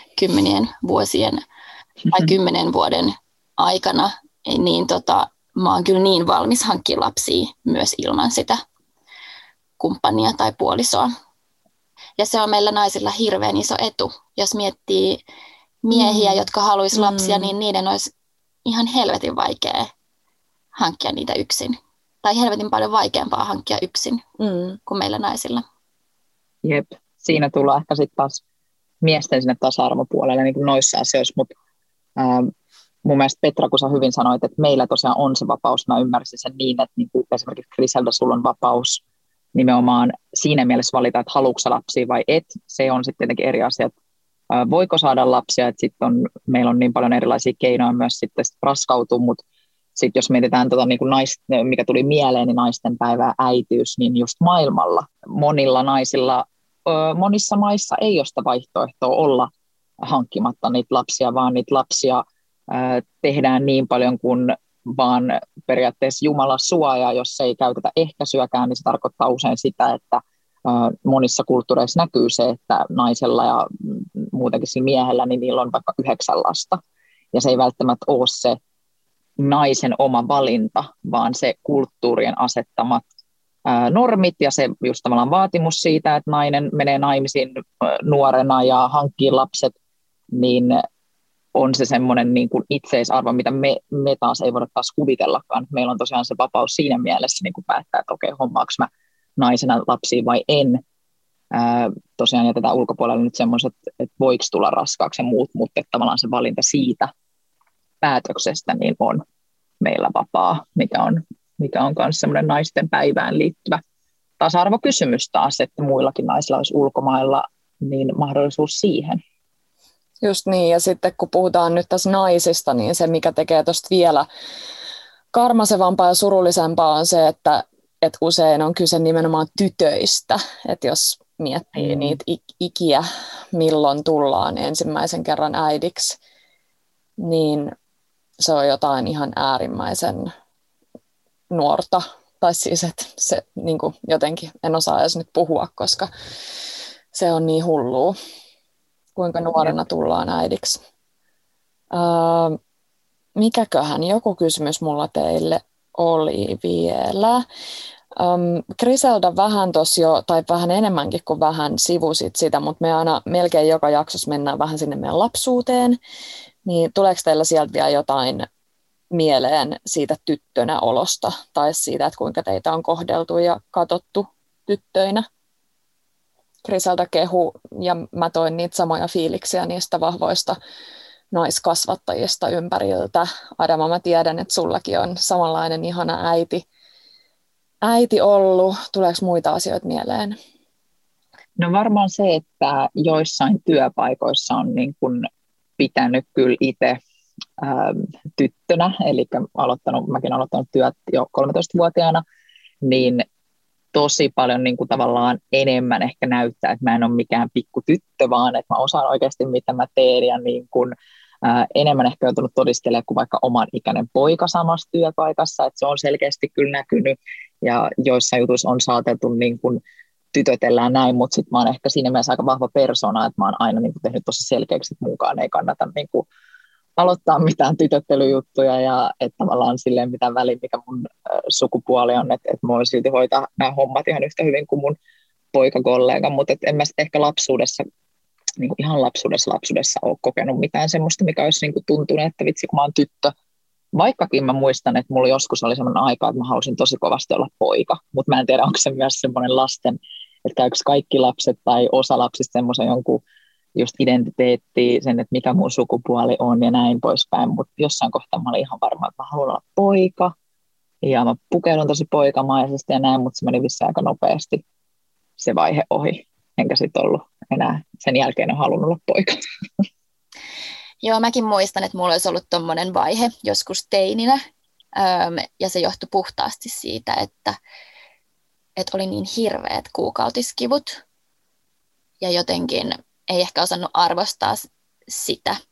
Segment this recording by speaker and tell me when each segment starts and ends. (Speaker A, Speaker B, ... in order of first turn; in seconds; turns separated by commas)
Speaker A: 0.2-1.4, Speaker A: 2.1-8.6, Speaker A: 9.8-11.1, Speaker A: 12.2-15.2, Speaker A: 15.8-18.1, Speaker B: 15.9-16.4, Speaker B: 16.9-17.6, Speaker A: 18.6-19.9, Speaker A: 20.8-24.2, Speaker B: 24.4-24.8, Speaker A: 24.9-25.6, Speaker C: 26.6-28.4, Speaker C: 29.0-31.5, Speaker C: 32.2-32.5, Speaker C: 33.0-39.0, Speaker C: 39.5-43.9, Speaker C: 44.5-49.4, Speaker C: 50.0-59.5, Speaker C: 60.0-76.8, Speaker C: 77.3-78.6, Speaker C: 79.4-83.0, Speaker C: 83.7-89.7, Speaker C: 90.3-90.8, Speaker C: 91.5-100.8, Speaker C: 101.5-107.1, Speaker C: 108.0-109.2, Speaker C: 109.8-113.8, Speaker C: 114.4-119.2, Speaker B: 120.2-124.3, Speaker B: 125.3-136.2, Speaker C: 131.8-132.2, Speaker B: 137.2-137.8, Speaker B: 138.4-140.3, Speaker B: 141.5-146.1, Speaker B: 147.1-148.2, Speaker B: 149.2-150.8, Speaker B: 151.9-152.6, Speaker B: 153.4-157.4, Speaker B: 158.2-166.0, Speaker B: 166.7-168.5, Speaker B: 169.1-175.3, Speaker B: 176.7-180.6, Speaker B: 181.3-186.7, Speaker B: 187.8-190.4, Speaker C: 191.6-195.3, Speaker C: 195.8-197.0, Speaker C: 197.6-202.2, Speaker C: 202.8-203.2, Speaker C: 203.9-219.8, Speaker C: 220.3-226.3, Speaker C: 227.0-235.0, Speaker C: 235.5-237.8, Speaker C: 238.6-243.3, Speaker C: 243.9-253.2, Speaker C: 253.8-260.3, Speaker C: 261.0-264.6, Speaker C: 265.4-269.4, Speaker A: 271.0-274.4, Speaker A: 274.9-277.6, Speaker A: 278.8-281.0, Speaker A: 282.2-285.6